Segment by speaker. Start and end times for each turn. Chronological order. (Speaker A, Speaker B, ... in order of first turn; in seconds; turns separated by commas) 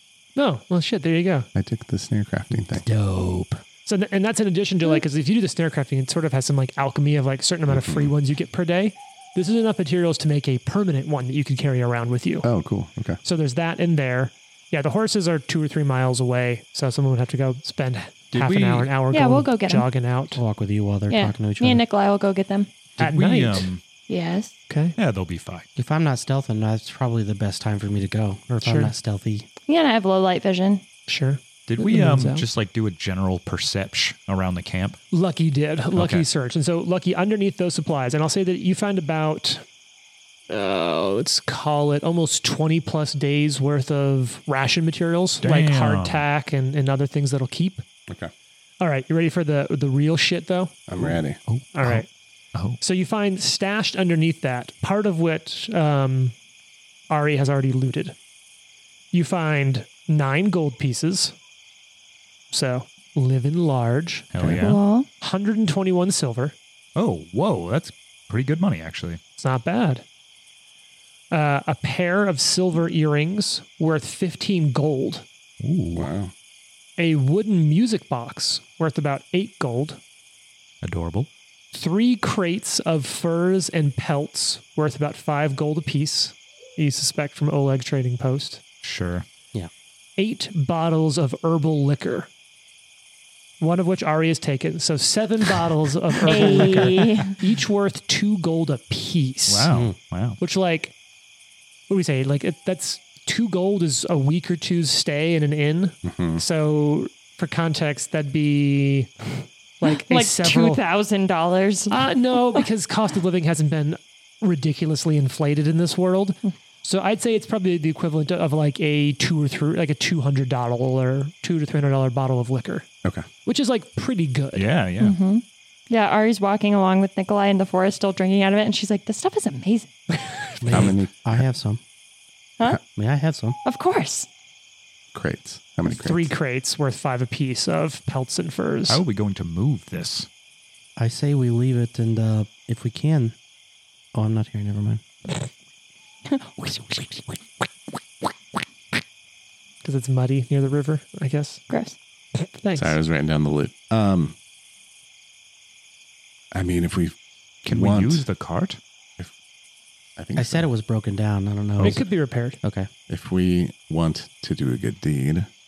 Speaker A: 0.3-1.5, Speaker B: 1.5-2.9, Speaker C: 2.7-3.6, Speaker A: 3.9-12.5, Speaker B: 7.7-8.1, Speaker B: 12.4-13.2, Speaker A: 13.2-20.4, Speaker D: 18.3-18.9, Speaker E: 19.1-19.9, Speaker C: 20.3-21.8, Speaker E: 21.1-22.7, Speaker D: 23.0-23.8, Speaker A: 23.0-23.7, Speaker E: 24.1-24.5, Speaker A: 24.7-24.9, Speaker D: 25.0-25.7, Speaker C: 25.8-29.5, Speaker A: 28.6-28.9, Speaker E: 29.7-30.8, Speaker A: 31.1-32.5, Speaker D: 31.7-35.0, Speaker A: 35.1-39.6, Speaker D: 35.9-36.3, Speaker A: 40.5-47.8, Speaker D: 45.4-46.2, Speaker A: 48.8-50.8, Speaker B: 50.9-51.4, Speaker D: 51.0-52.8, Speaker A: 51.7-52.1, Speaker A: 52.8-56.3, Speaker A: 57.1-58.1, Speaker A: 59.1-61.4, Speaker A: 62.5-64.3, Speaker D: 64.3-64.8, Speaker B: 64.4-64.7, Speaker E: 64.6-65.1, Speaker A: 65.1-66.5, Speaker D: 67.0-69.2, Speaker A: 69.4-70.0, Speaker A: 71.3-75.2, Speaker D: 75.6-76.1, Speaker B: 75.9-76.3, Speaker A: 77.0-80.0, Speaker D: 80.8-81.3, Speaker A: 81.7-88.6, Speaker D: 88.8-89.2, Speaker A: 90.2-92.3, Speaker A: 93.6-99.7, Speaker E: 96.2-97.3, Speaker D: 99.5-100.4, Speaker C: 99.7-99.9, Speaker A: 100.4-100.9, Speaker A: 101.9-109.1, Speaker B: 106.0-106.4, Speaker A: 109.8-110.8, Speaker E: 109.9-112.6, Speaker A: 111.9-122.9, Speaker A: 123.4-124.7, Speaker D: 124.5-125.2, Speaker E: 125.0-129.9, Speaker C: 130.6-131.8, Speaker B: 130.7-131.4, Speaker C: 132.8-133.6, Speaker E: 133.6-134.3, Speaker B: 135.1-136.3, Speaker A: 135.8-139.0, Speaker D: 138.9-140.3, Speaker C: 141.0-143.3, Speaker C: 144.1-145.0, Speaker E: 146.3-147.3, Speaker A: 149.8-151.6, Speaker E: 151.7-152.0, Speaker A: 152.3-153.0, Speaker B: 152.7-154.3, Speaker B: 156.5-158.2, Speaker D: 157.7-158.8, Speaker B: 160.2-160.7, Speaker C: 160.3-162.0, Speaker A: 161.8-162.6, Speaker C: 162.6-162.9, Speaker B: 163.1-165.5